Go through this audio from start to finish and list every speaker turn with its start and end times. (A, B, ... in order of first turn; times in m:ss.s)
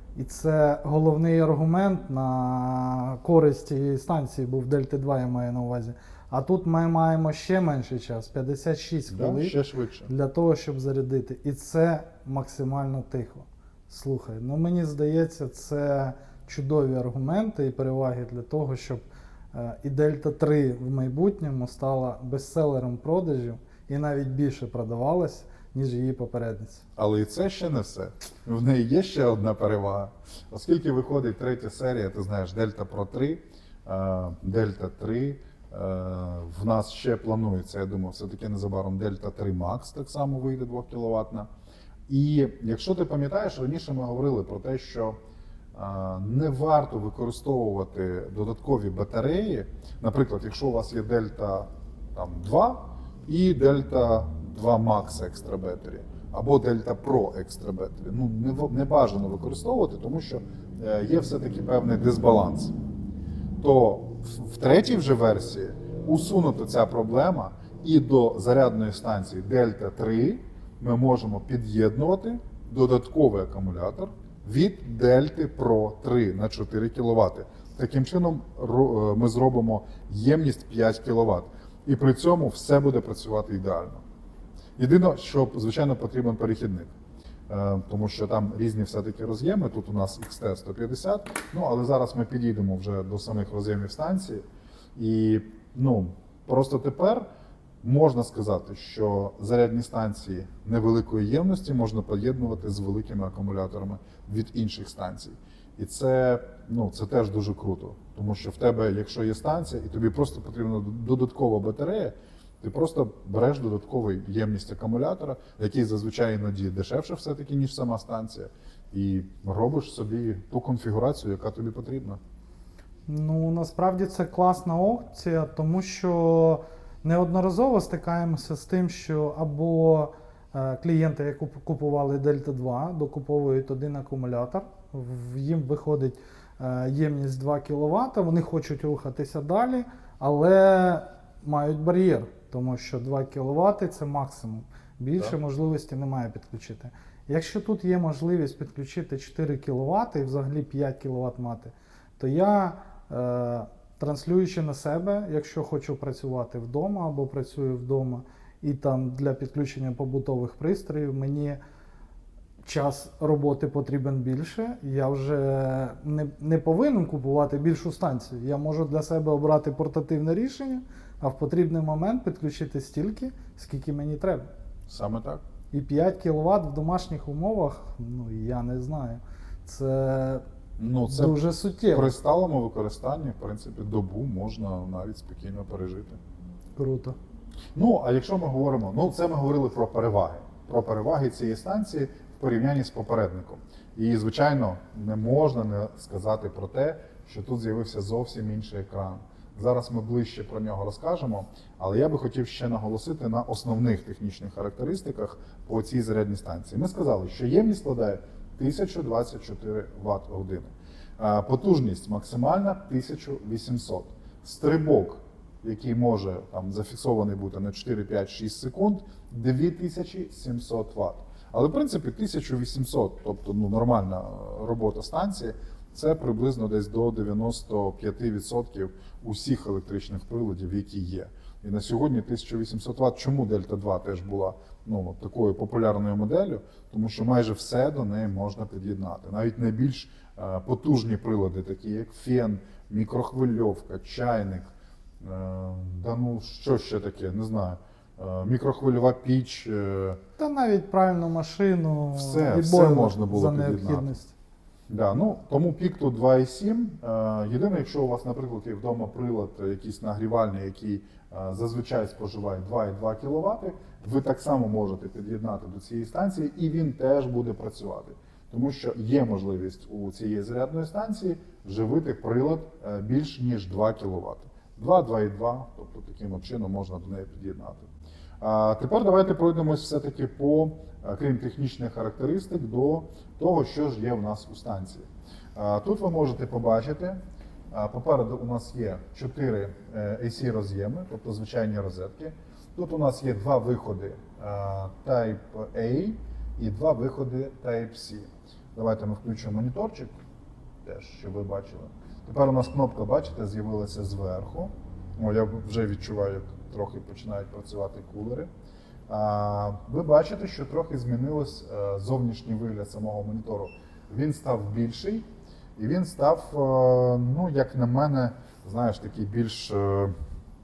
0:00.1-0:09.6 A
0:09.1-0:10.1 B
0:10.1-0:26.8 A
0:27.0-0:41.5 B
0:42.1-0:45.2 B
0:45.7-1:02.7 B
1:03.6-1:24.0 B
1:24.8-1:26.9 B
1:27.5-1:34.4 B
1:35.0-1:37.2 B
1:37.8-2:02.2 B
2:03.1-2:41.6 A
2:42.6-2:54.5 A
2:54.9-2:55.4 B
2:55.7-3:00.4 A
3:00.8-3:06.2 B
3:01.1-3:02.1 A
3:06.8-3:07.2 A
3:07.7-4:04.7 B
4:05.2-4:10.2 B
4:10.4-4:14.3 A
4:12.1-4:14.1 B
4:14.9-4:37.9 B
4:38.4-4:47.2 B
4:47.7-5:00.1 B
5:00.8-5:08.5 B
5:09.1-5:15.2 B
5:15.8-5:20.1 B